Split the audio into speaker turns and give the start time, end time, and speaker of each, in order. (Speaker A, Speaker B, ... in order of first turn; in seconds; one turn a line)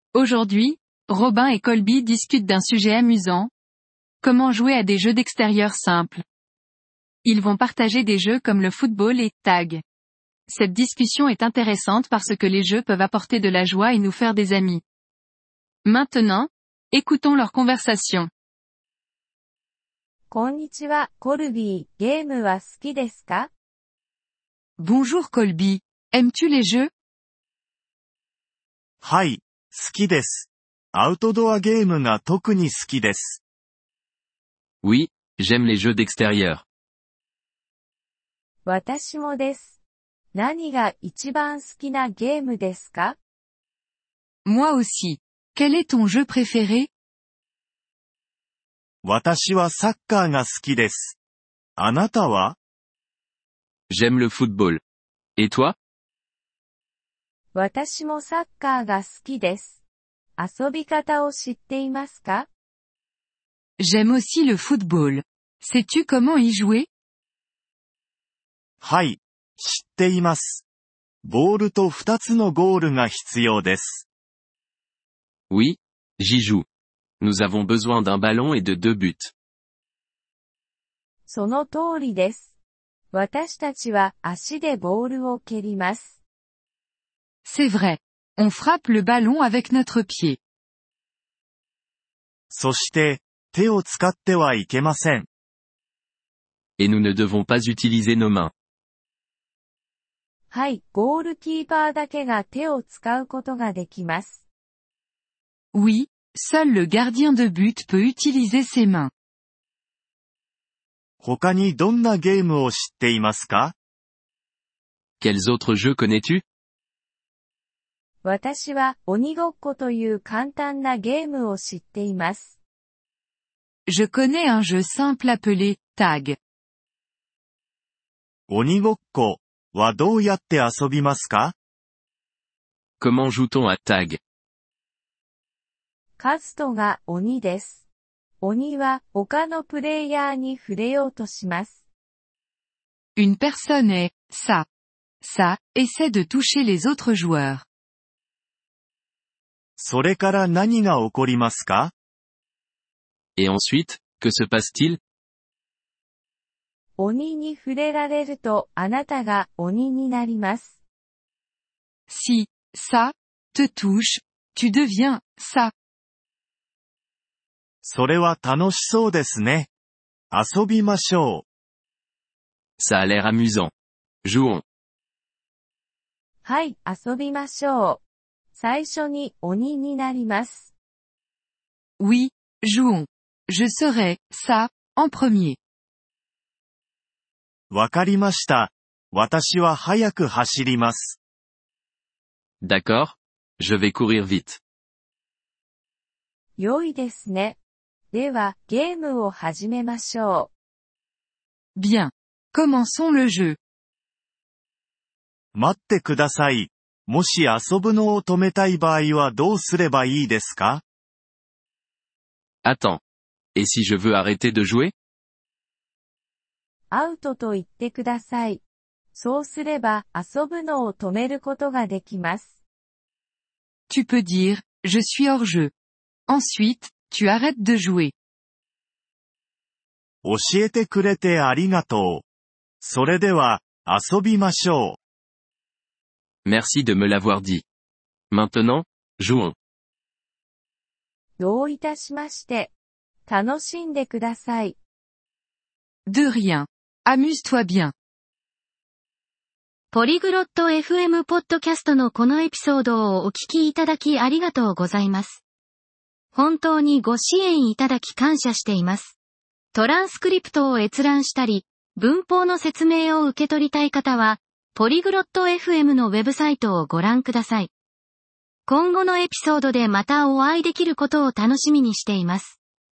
Speaker A: 0.1-3.5
Speaker A: 4.2-6.2
Speaker A: 7.2-9.8
Speaker A: 10.5-14.8
Speaker A: 15.8-18.3
Speaker B: 20.3-23.5
Speaker A: 24.8-26.9
Speaker C: 29.0-33.4
Speaker D: 34.8-36.6
Speaker B: 38.6-39.8
Speaker B: 40.3-43.2
Speaker A: 44.5-46.9
Speaker C: 49.0-51.2
Speaker C: 51.8-52.6
Speaker D: 53.9-54.8
Speaker D: 55.4-55.8
Speaker B: 57.5-59.8
Speaker B: 60.4-62.5
Speaker A: 63.8-66.9
Speaker C: 68.8-70.6
Speaker C: 71.2-74.1
Speaker D: 75.5-76.7
Speaker D: 77.2-79.3
Speaker B: 81.3-82.5
Speaker B: 83.1-86.2
Speaker A: 87.5-90.4
Speaker C: 92.5-95.3
Speaker D: 96.8-98.5
Speaker B: 100.5-104.4
Speaker A: 105.7-109.1
Speaker C: 111.2-113.7
Speaker D: 115.2-116.4
Speaker B: 118.2-122.5
Speaker A: 123.9-126.4
Speaker C: 128.5-131.6
Speaker D: 133.0-134.2
Speaker B: 136.2-137.8
Speaker B: 138.4-141.8
Speaker A: 143.2-144.7
Speaker A: 145.2-147.6
Speaker C: 149.8-151.9
Speaker D: 153.4-155.0
Speaker B: 157.0-160.8
Speaker A: 162.1-165.7
Speaker C: 167.8-169.7
Speaker C: 170.3-171.4
Speaker D: 172.8-173.7
Speaker D: 174.2-174.6
Speaker B: 176.4-178.0
Speaker B: 178.5-180.7
Speaker A: 182.0-185.6
Speaker C: 187.7-191.2
Speaker D: 192.6-194.6
Speaker B: 196.6-197.6
Speaker B: 198.1-200.5
Speaker A: 201.8-203.6
Speaker C: 205.5-210.8
Speaker D: 212.6-213.0
Speaker D: 213.6-214.9
Speaker B: 216.9-218.6
Speaker B: 219.1-222.5
Speaker A: 223.9-225.7
Speaker A: 226.3-228.1
Speaker C: 230.2-232.2
Speaker C: 232.8-235.0
Speaker D: 236.4-237.7
Speaker D: 238.3-239.6
Speaker B: 241.4-242.7
Speaker B: 243.3-244.8
Speaker A: 246.1-247.9
Speaker E: 249.9-255.4
Speaker E: 256.3-259.2
Speaker E: 259.7-267.7
Speaker E: 268.7-272.6